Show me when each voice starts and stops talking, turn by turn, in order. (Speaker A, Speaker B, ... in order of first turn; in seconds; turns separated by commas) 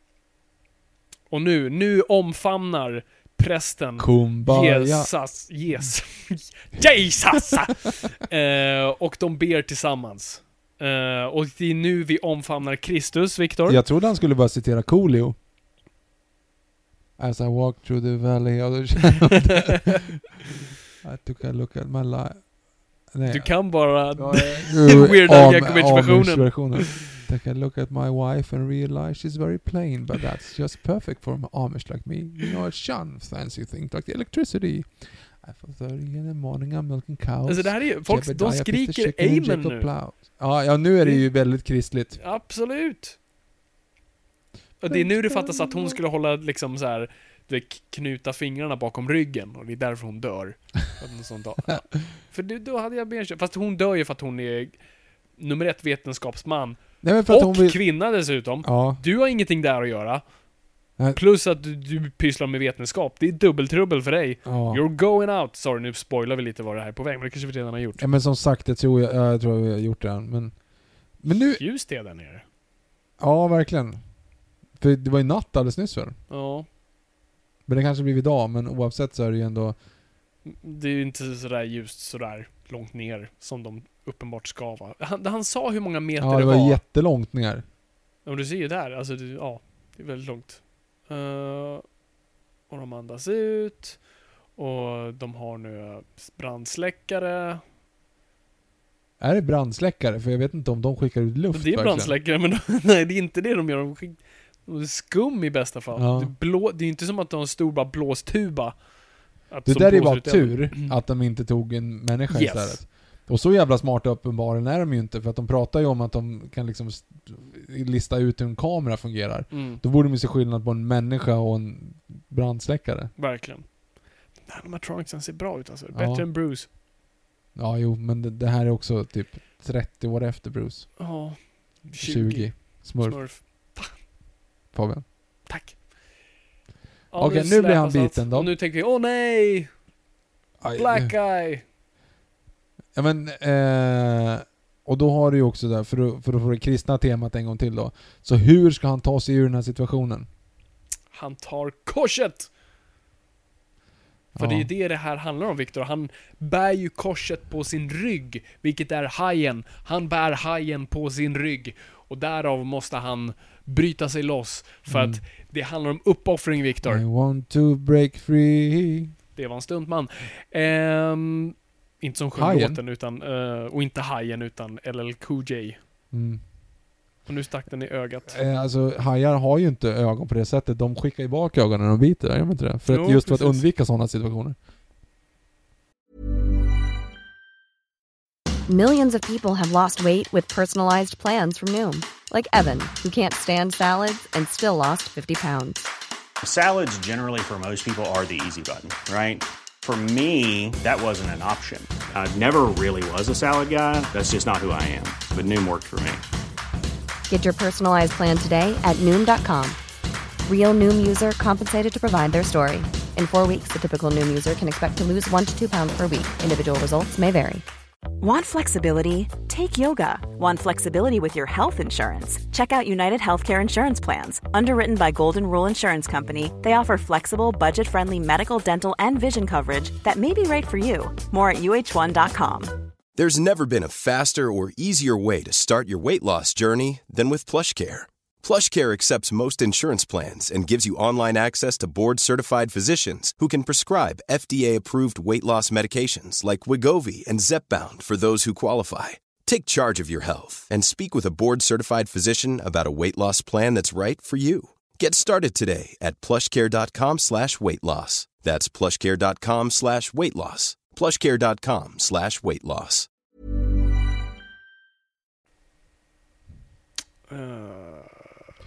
Speaker A: 1.3-13.8, Speaker B: 4.0-5.1, Speaker B: 13.7-15.3, Speaker B: 17.2-20.1, Speaker A: 19.3-19.8, Speaker B: 21.0-22.5, Speaker B: 23.1-42.2, Speaker A: 23.3-26.9, Speaker A: 37.5-39.9, Speaker A: 41.0-41.3, Speaker A: 42.2-43.2, Speaker A: 44.8-54.8, Speaker B: 44.9-46.0, Speaker A: 55.4-60.2, Speaker B: 57.0-57.8, Speaker B: 58.6-59.0, Speaker A: 61.1-68.0, Speaker B: 64.4-64.8, Speaker B: 68.0-70.6, Speaker B: 71.2-71.6, Speaker A: 71.5-72.4, Speaker B: 73.2-74.0, Speaker B: 74.8-76.2, Speaker A: 76.3-76.7, Speaker B: 77.7-79.8, Speaker A: 80.4-86.8, Speaker B: 86.2-87.6, Speaker A: 88.2-91.8, Speaker A: 92.7-94.0, Speaker A: 94.5-97.6, Speaker B: 99.2-102.1, Speaker A: 101.5-108.8, Speaker B: 105.9-106.3, Speaker A: 109.5-110.9, Speaker B: 109.7-123.1, Speaker A: 112.3-112.8, Speaker A: 119.5-119.8, Speaker A: 123.2-123.7, Speaker A: 124.4-126.7, Speaker B: 125.9-126.3, Speaker B: 127.5-131.0, Speaker A: 131.0-134.0, Speaker B: 131.9-133.2, Speaker B: 134.7-135.1, Speaker A: 135.4-135.8, Speaker A: 137.1-139.7, Speaker B: 137.2-138.5, Speaker B: 140.6-141.1, Speaker A: 140.7-141.6, Speaker B: 142.9-150.3, Speaker A: 151.1-152.5, Speaker B: 154.3-154.7, Speaker A: 154.3-167.0, Speaker B: 164.9-165.2, Speaker B: 166.8-169.1, Speaker A: 169.3-175.8, Speaker B: 172.3-172.8, Speaker B: 176.1-176.4, Speaker A: 177.2-178.4, Speaker B: 178.3-184.6, Speaker A: 182.9-183.6, Speaker C: 188.7-195.8, Speaker D: 196.4-206.2, Speaker C: 207.3-209.8, Speaker C: 210.4-217.6, Speaker E: 218.2-232.7, Speaker F: 233.2-263.1, Speaker A: 267.3-268.3